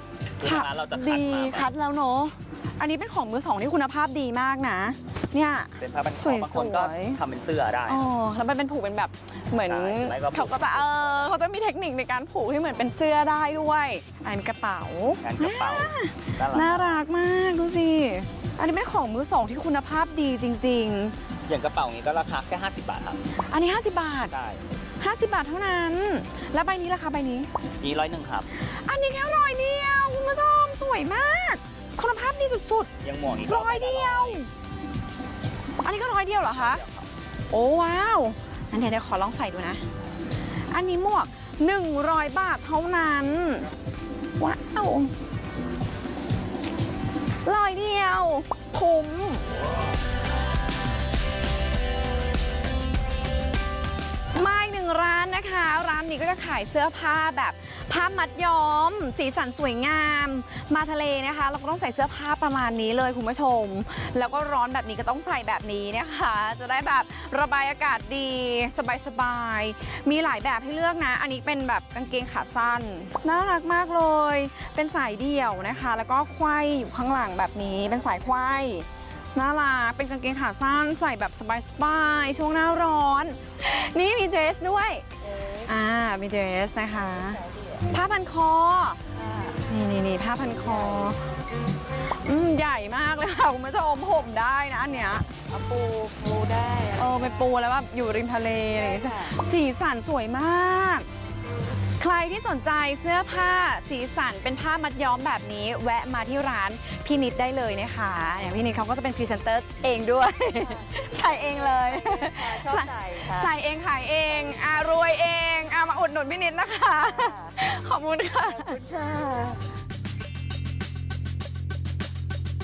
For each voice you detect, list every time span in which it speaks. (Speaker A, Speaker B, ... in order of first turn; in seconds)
Speaker A: 0.4-1.7, 5.8-8.0, 9.7-11.3, 15.2-17.0, 21.5-23.2, 24.3-24.6, 27.8-28.5, 33.0-34.4, 36.5-37.1
Speaker B: 0.4-7.2, 7.9-21.1, 23.5-24.3, 25.0-27.5, 28.9-32.9, 33.5-34.5, 35.8-36.8, 37.5-39.8, 40.7-43.7, 44.4-45.1, 47.5-49.5, 54.4-85.1, 85.6-89.0, 89.6-91.2, 92.2-95.3, 96.9-101.1, 102.0-118.8
Speaker C: 89.2-89.6, 95.5-97.2, 112.1-113.5, 118.7-119.6